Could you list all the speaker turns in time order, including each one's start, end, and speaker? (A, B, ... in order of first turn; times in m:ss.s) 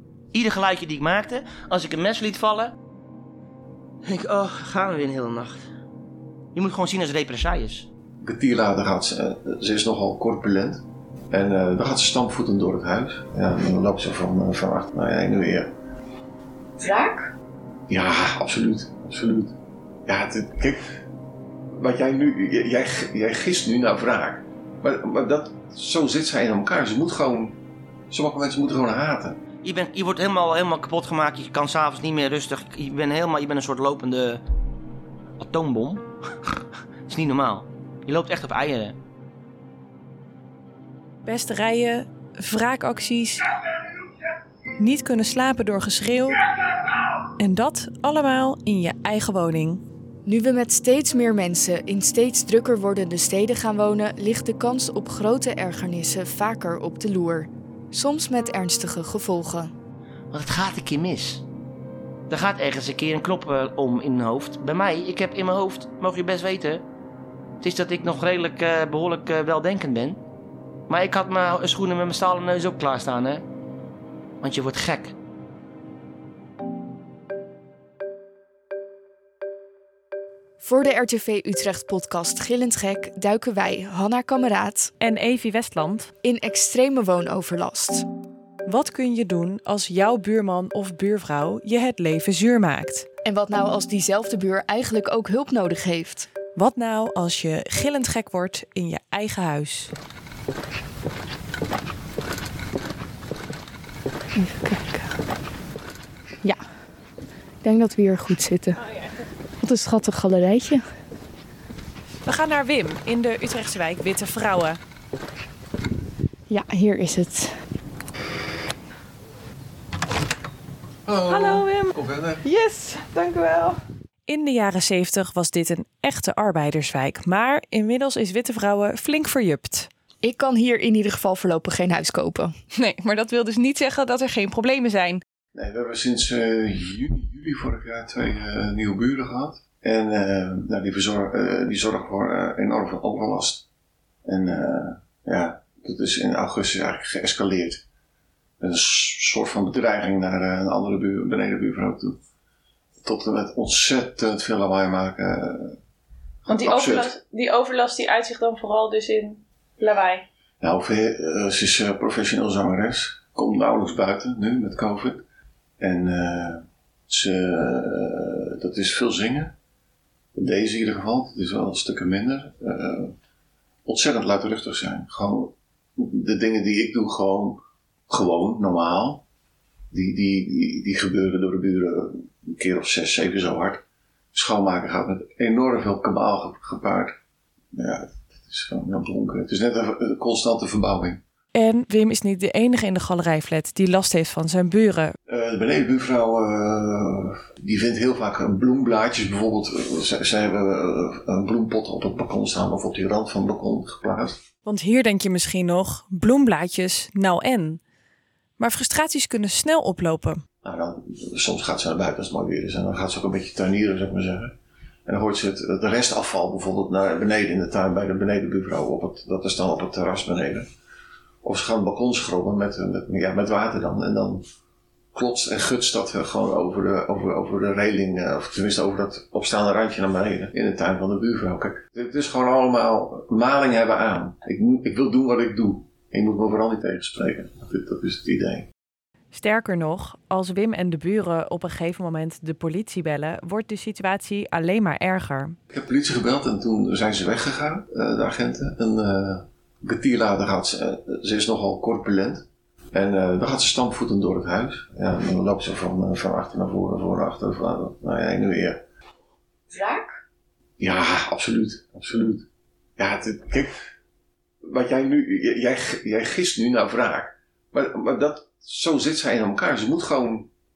0:00.3-0:02.7 A
0:04.0-0:05.6 A
0:06.5-0:07.9 A
0:08.2-0:15.7 B
0:16.8-0:17.2 C
0:17.9-0:19.5 B
0:20.1-0:20.8 B
0:21.8-0:27.6 B
0:28.1-0:29.4 B
0:29.6-0:34.4 A
0:35.4-0:39.0 A
0:41.2-0:43.5 D
0:44.8-0:46.4 D
0:47.4-0:49.8 D
0:50.3-0:59.7 C
1:00.3-1:01.4 A
1:02.3-1:06.8 A
1:07.6-1:10.2 A
1:10.9-1:13.4 A
1:14.4-1:15.2 A
1:20.6-1:24.9 C
1:25.0-1:26.1 D
1:26.2-1:28.1 C
1:28.7-1:33.1 D
1:33.2-1:36.3 C
1:36.6-1:39.9 D
1:44.4-1:45.1 C
1:47.6-1:48.8 C
1:49.6-1:50.8 C
1:52.3-1:54.8 D
1:56.5-1:57.6 C
2:01.1-2:02.4 B
2:01.3-2:03.8 D
2:04.3-2:09.9 D
2:10.2-2:12.5 C
2:12.8-2:15.2 D
2:15.6-2:23.7 B
2:24.3-2:27.8 B
2:28.6-2:32.2 B
2:33.0-2:35.8 B
2:36.5-2:37.2 B
2:36.5-2:40.2 E
2:40.6-2:45.2 B
2:45.8-2:49.5 B
2:50.4-2:53.1 B
2:53.9-2:59.2 B
2:59.9-3:03.8 B
3:04.3-3:07.2 B
3:07.8-3:11.2 B
3:11.5-3:15.2 D
3:15.3-3:24.4 B
3:24.6-3:27.8 D
3:28.6-3:30.4 D
3:30.6-3:34.6 B
3:35.1-3:40.7 B
3:41.4-3:44.4 B
3:45.1-3:58.7 B
3:59.3-4:05.6 D
4:05.7-4:18.8 B
4:19.7-4:20.0 C
4:20.8-4:22.4 B
4:23.0-4:23.7 B
4:24.7-4:30.5 B